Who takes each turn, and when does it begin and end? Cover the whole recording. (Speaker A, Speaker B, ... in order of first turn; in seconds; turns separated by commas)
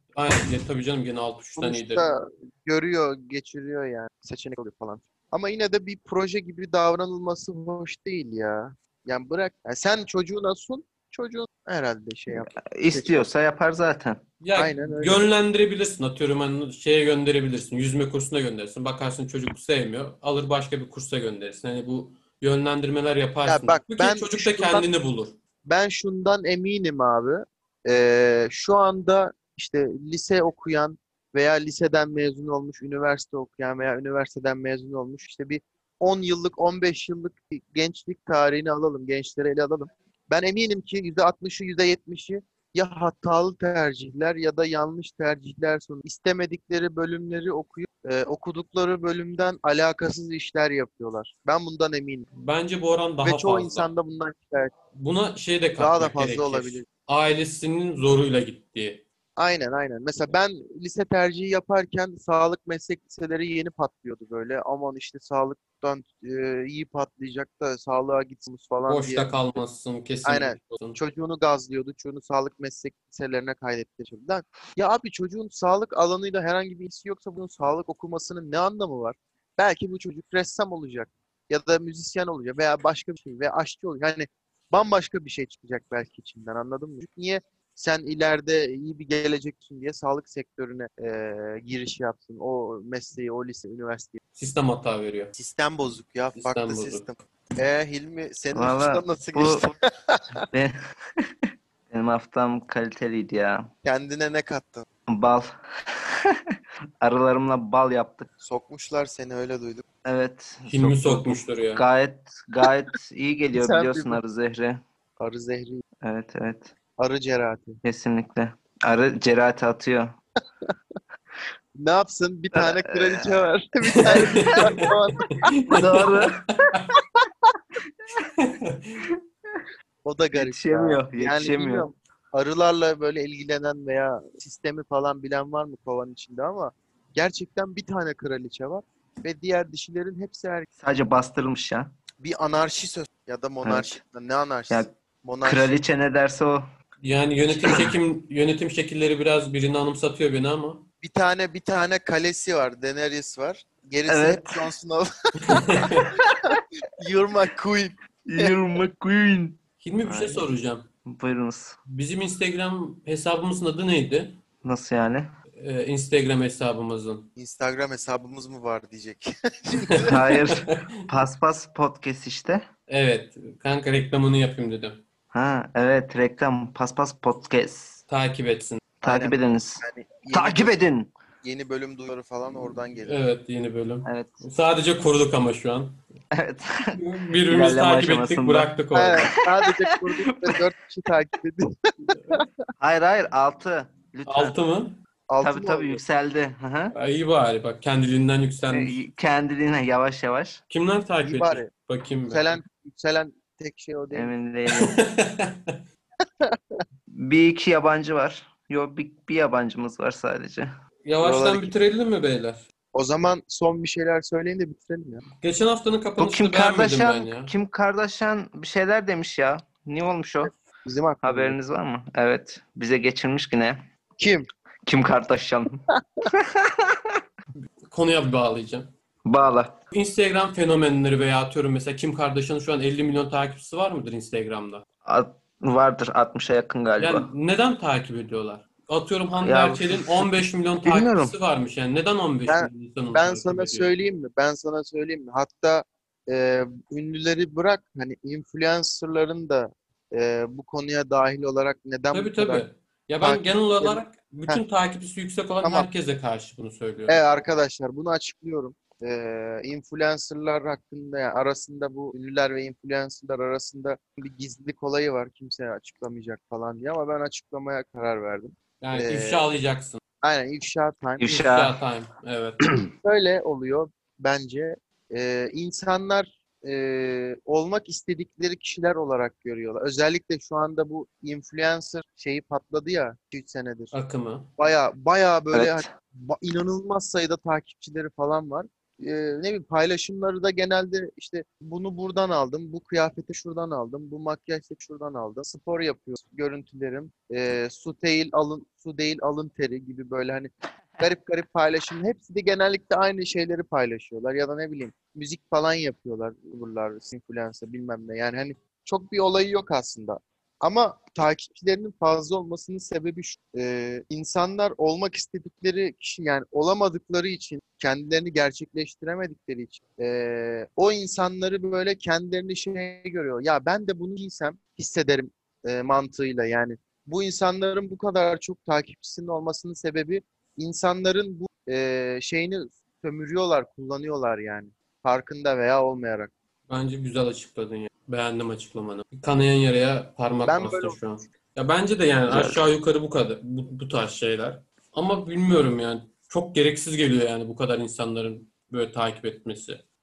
Speaker A: 0.1-2.0, Speaker B: 1.6-13.3, Speaker C: 12.4-14.2, Speaker A: 14.4-25.4, Speaker B: 14.6-15.3, Speaker B: 23.4-24.9, Speaker B: 25.6-52.2, Speaker A: 52.4-53.9, Speaker B: 53.2-54.7, Speaker A: 54.9-59.0, Speaker B: 55.8-56.9, Speaker B: 59.4-69.3, Speaker A: 68.9-71.0, Speaker B: 70.2-94.2, Speaker A: 94.3-95.3, Speaker B: 95.3-100.4, Speaker A: 96.3-97.1, Speaker C: 98.5-99.7, Speaker C: 100.5-101.3, Speaker C: 101.9-103.7, Speaker B: 103.8-104.8, Speaker C: 105.1-106.4, Speaker C: 107.0-108.3, Speaker B: 108.4-109.8, Speaker C: 110.0-114.8, Speaker A: 110.7-111.8, Speaker B: 113.5-114.2, Speaker B: 115.2-115.8, Speaker C: 116.0-116.7, Speaker B: 117.0-117.8, Speaker C: 117.8-120.2, Speaker B: 121.8-125.3, Speaker C: 122.5-123.3, Speaker C: 123.9-124.7, Speaker A: 124.1-126.9, Speaker C: 125.7-126.4, Speaker A: 128.4-129.0, Speaker C: 129.0-129.7, Speaker B: 130.0-140.7, Speaker C: 130.3-131.9, Speaker C: 140.8-141.9, Speaker B: 142.2-145.7, Speaker C: 143.6-144.0, Speaker C: 145.4-146.6, Speaker A: 147.0-150.8, Speaker C: 147.5-147.9, Speaker B: 151.0-155.9, Speaker C: 154.1-154.7, Speaker A: 155.5-156.1, Speaker C: 156.2-156.6, Speaker B: 157.0-158.5, Speaker C: 158.2-160.4, Speaker A: 159.8-160.8, Speaker C: 161.1-161.8, Speaker A: 161.9-164.4, Speaker C: 164.6-165.3, Speaker A: 165.6-167.3, Speaker B: 167.4-170.2, Speaker A: 169.9-170.8, Speaker C: 170.1-172.7, Speaker A: 172.9-175.0, Speaker C: 175.3-178.0, Speaker A: 178.1-178.8, Speaker C: 179.0-181.1, Speaker B: 179.0-180.8, Speaker B: 181.4-183.2, Speaker A: 183.0-186.0, Speaker C: 184.0-184.4, Speaker C: 186.3-190.6, Speaker A: 187.0-189.3, Speaker B: 188.9-192.5, Speaker C: 192.8-194.6, Speaker A: 194.3-195.0, Speaker B: 195.3-196.0, Speaker C: 195.4-196.9, Speaker A: 196.9-199.0, Speaker C: 198.7-200.6, Speaker A: 200.7-202.6, Speaker B: 201.2-201.7, Speaker B: 202.3-204.3, Speaker C: 204.1-204.9, Speaker A: 204.7-205.8, Speaker B: 206.4-206.8, Speaker C: 207.1-210.7, Speaker A: 211.0-212.7, Speaker B: 211.2-211.7, Speaker B: 212.9-215.2, Speaker A: 215.4-217.5, Speaker C: 216.2-220.5, Speaker B: 220.8-221.6, Speaker C: 221.2-223.8, Speaker B: 224.2-224.5, Speaker C: 224.8-227.1, Speaker A: 227.9-228.9, Speaker C: 229.2-229.7, Speaker A: 229.9-234.8, Speaker C: 235.0-237.3, Speaker A: 237.0-243.9, Speaker C: 239.4-240.3, Speaker C: 240.8-241.3, Speaker B: 242.5-252.6, Speaker A: 252.1-257.2, Speaker B: 253.2-254.6, Speaker B: 255.6-255.9, Speaker B: 257.1-269.4, Speaker A: 268.8-270.0, Speaker B: 270.2-271.4, Speaker C: 271.2-271.8, Speaker A: 271.4-272.6, Speaker B: 272.9-283.9, Speaker A: 283.9-284.5, Speaker B: 284.6-336.3, Speaker C: 285.5-285.9, Speaker A: 336.7-349.8, Speaker B: 340.4-341.0, Speaker C: 342.3-342.6